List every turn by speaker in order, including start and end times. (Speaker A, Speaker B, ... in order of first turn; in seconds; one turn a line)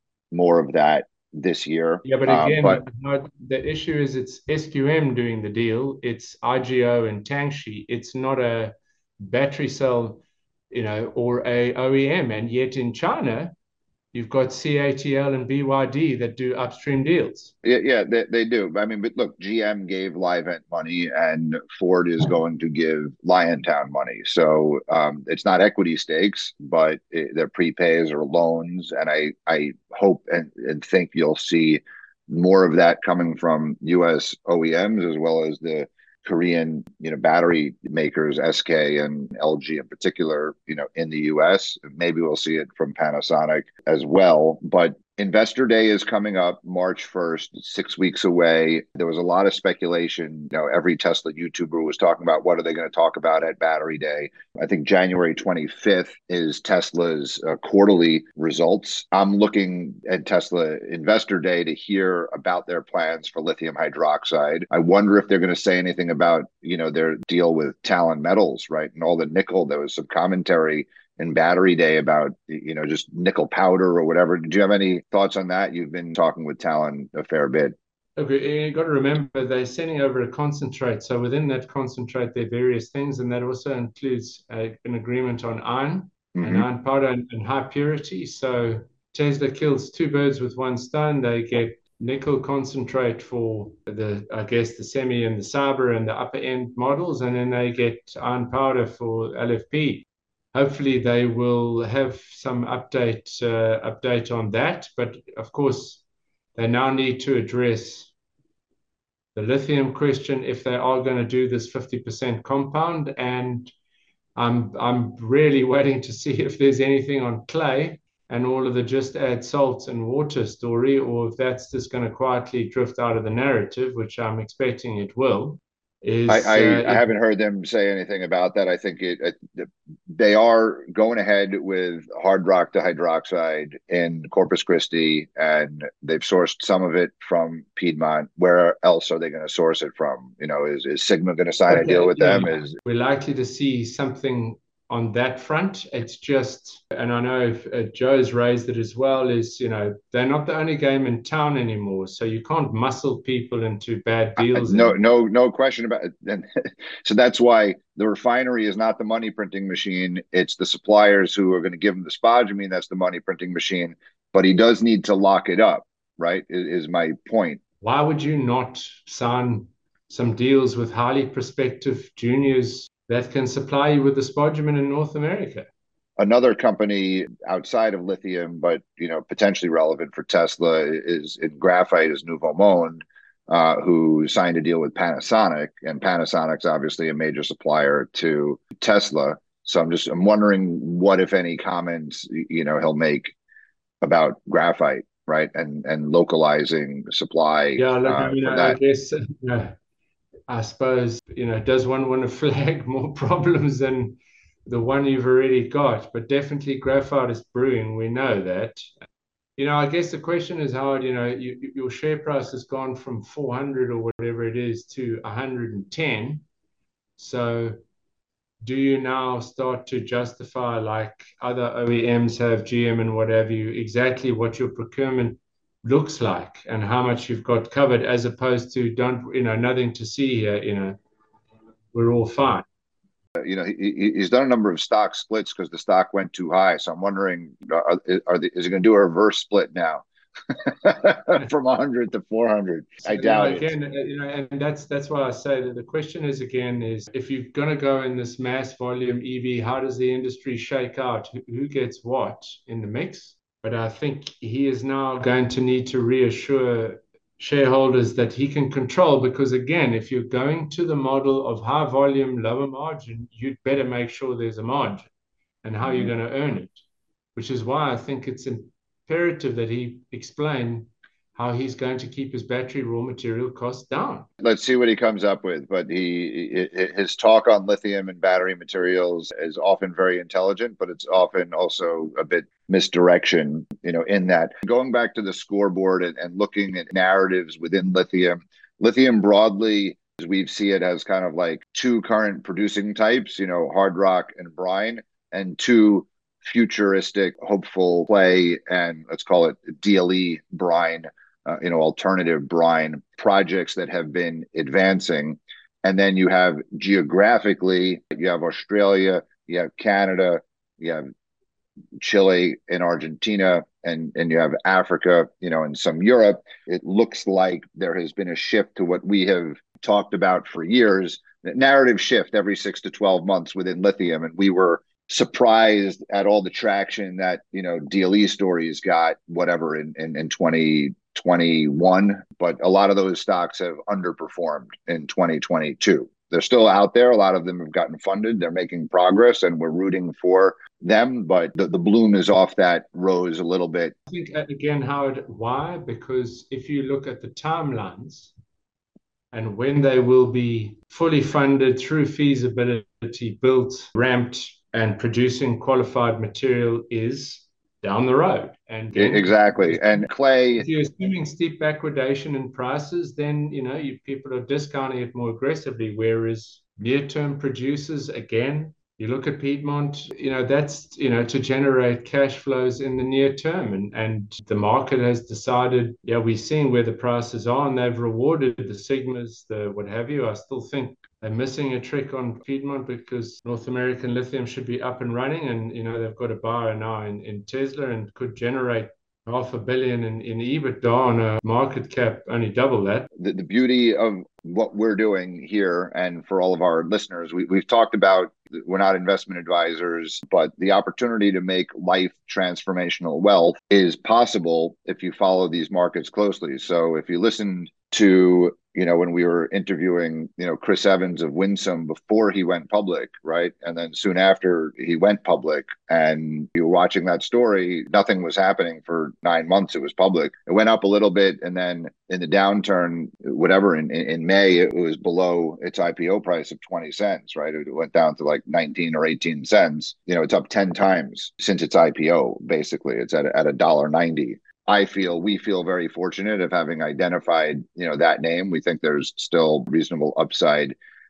Speaker A: 0.3-2.8
Speaker B: 2.0-13.5
Speaker B: 14.1-17.5
Speaker A: 17.6-77.8
Speaker B: 78.2-106.0
Speaker A: 86.3-86.6
Speaker B: 106.5-108.1
Speaker B: 109.3-113.7
Speaker B: 114.3-127.1
Speaker A: 126.3-142.7
Speaker B: 141.7-155.0
Speaker A: 154.4-167.6
Speaker B: 167.8-175.7
Speaker A: 176.2-193.3
Speaker A: 194.0-198.8
Speaker B: 197.8-199.7
Speaker B: 200.5-208.9
Speaker B: 209.6-216.4
Speaker B: 217.2-217.8
Speaker B: 218.6-231.0
Speaker B: 231.9-232.6
Speaker A: 233.4-243.7
Speaker B: 243.0-265.1
Speaker B: 265.6-266.8
Speaker B: 267.3-274.3
Speaker A: 274.4-311.0
Speaker A: 312.0-343.9
Speaker B: 344.1-348.3
Speaker B: 349.3-393.1
Speaker A: 358.9-360.6
Speaker A: 393.2-440.8